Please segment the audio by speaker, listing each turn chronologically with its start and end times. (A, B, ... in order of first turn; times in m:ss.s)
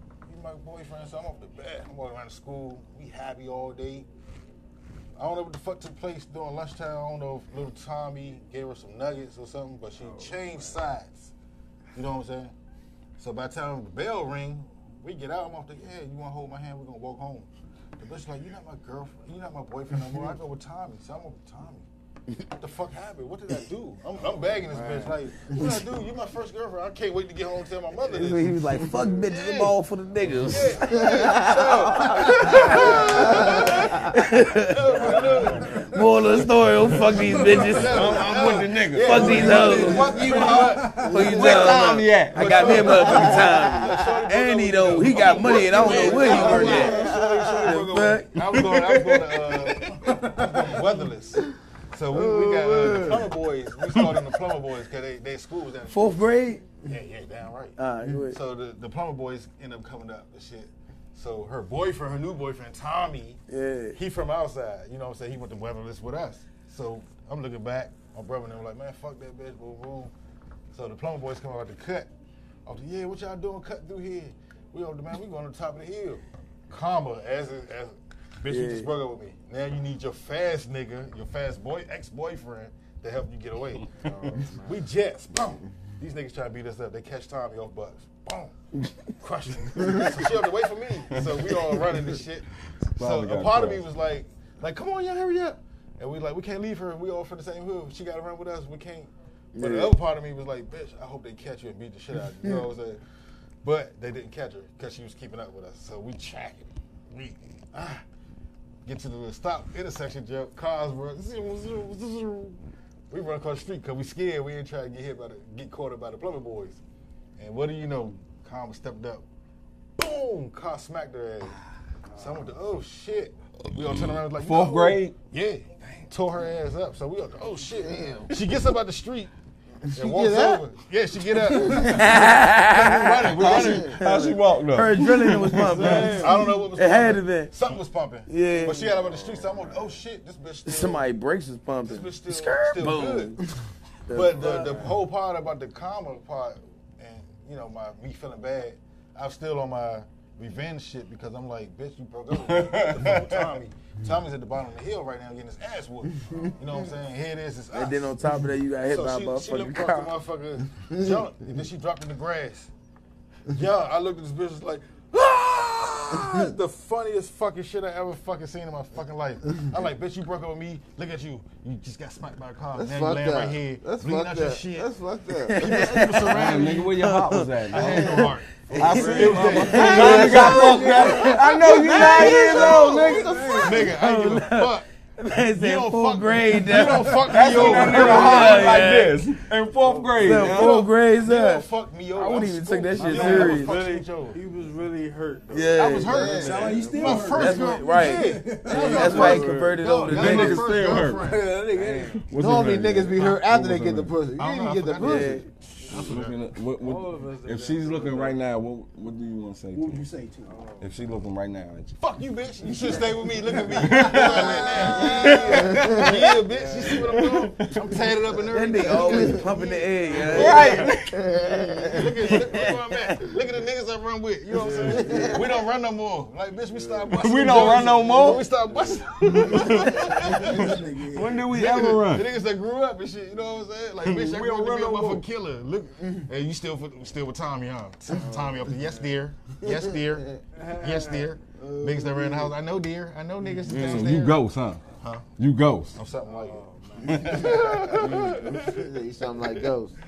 0:00.3-0:04.1 A
0:05.2-0:11.3 A
0:10.0-0:10.8 B
0:11.9-0:12.5 A
0:13.2-0:21.8 A
0:22.5-0:29.8 A
0:24.7-0:25.1 B
0:28.1-0:32.9 C
0:30.3-0:34.1 A
0:30.9-0:33.8 D
0:34.1-0:34.9 C
0:34.6-0:37.0 A
0:35.0-0:35.8 B
0:35.9-0:38.2 C
0:37.0-0:38.1 E
0:37.6-0:41.8 A
0:37.8-0:43.3 F
0:38.9-0:40.3 C
0:39.1-0:41.4 E
0:41.0-0:41.7 D
0:41.0-0:48.4 C
0:42.3-0:57.8 A
0:42.8-0:44.3 D
0:45.7-0:47.9 D
0:46.1-0:46.6 E
0:48.4-0:49.9 F
0:52.1-0:53.3 D
0:55.9-0:56.6 C
0:57.8-0:58.4 C
0:58.3-1:03.4 A
1:03.5-1:04.0 C
1:04.0-1:10.1 A
1:10.7-1:12.1 A
1:12.6-1:23.9 A
1:18.5-1:18.9 C
1:24.0-1:24.8 B
1:24.0-1:24.4 F
1:24.6-1:28.6 A
1:29.1-1:32.4 A
1:31.1-1:31.8 F
1:33.0-1:33.8 F
1:33.0-1:43.0 A
1:39.5-1:40.0 C
1:43.6-1:48.0 A
1:48.8-1:52.6 A
1:53.1-1:56.8 A
1:57.4-1:59.2 A
2:00.0-2:01.6 A
2:02.2-2:09.3 A
2:03.8-2:05.2 F
2:07.8-2:08.3 D
2:09.9-2:10.6 D
2:09.9-2:14.0 A
2:11.5-2:11.9 D
2:11.6-2:17.5 C
2:13.3-2:16.2 F
2:13.6-2:13.9 D
2:15.8-2:16.3 B
2:15.8-2:21.1 A
2:18.3-2:19.0 C
2:19.1-2:19.9 B
2:20.6-2:23.4 C
2:21.8-2:23.3 A
2:24.1-2:24.9 C
2:24.1-2:38.1 A
2:24.5-2:24.9 B
2:32.3-2:33.5 F
2:37.7-2:40.1 C
2:38.8-2:42.7 A
2:43.5-2:54.9 A
2:52.8-2:56.5 D
2:55.5-3:03.2 C
2:55.6-2:56.9 A
2:56.3-3:03.4 F
2:57.7-3:01.2 A
2:57.8-2:58.2 D
2:58.8-3:04.0 D
3:03.3-3:03.9 E
3:03.6-3:04.9 A
3:03.8-3:09.2 C
3:05.5-3:08.7 A
3:07.2-3:10.8 F
3:09.8-3:10.5 B
3:10.2-3:13.7 C
3:10.5-3:14.4 A
3:12.9-3:17.6 B
3:15.5-3:16.4 C
3:15.8-3:21.5 A
3:16.1-3:16.7 D
3:16.3-3:19.4 E
3:17.2-3:20.8 C
3:18.6-3:20.0 B
3:20.1-3:21.3 F
3:21.2-3:22.2 E
3:21.7-3:22.2 B
3:22.1-3:24.1 F
3:22.3-3:25.4 D
3:24.3-3:26.4 A
3:25.0-3:25.4 C
3:25.8-3:26.2 B
3:25.9-3:30.0 F
3:26.8-3:28.4 B
3:29.7-3:30.6 E
3:30.4-3:30.9 B
3:30.8-3:32.0 F
3:32.0-3:41.1 A
3:33.7-3:34.7 F
3:34.2-3:37.2 B
3:34.6-3:36.2 D
3:35.7-3:36.1 F
3:37.1-3:37.7 F
3:38.5-3:40.9 C
3:38.9-3:39.4 D
3:40.1-3:40.5 B
3:40.3-3:41.3 F
3:40.8-3:42.1 D
3:41.9-3:50.8 A
3:42.2-3:42.9 C
3:44.5-3:45.4 B
3:44.8-3:45.5 D
3:46.7-3:47.8 B
3:47.2-3:48.5 F
3:48.7-3:49.0 B
3:49.2-3:49.9 F
3:49.4-3:51.3 D
3:51.1-3:52.3 F
3:51.4-4:00.2 A
3:54.0-3:55.2 F
3:58.1-3:59.0 B
3:59.6-3:59.9 D
4:00.6-4:01.3 B
4:00.8-4:04.4 A
4:01.6-4:02.5 D
4:03.7-4:04.8 F
4:05.0-4:05.2 A
4:05.4-4:06.0 F
4:05.9-4:08.9 A
4:06.2-4:07.4 B
4:07.1-4:10.0 D
4:07.1-4:07.5 F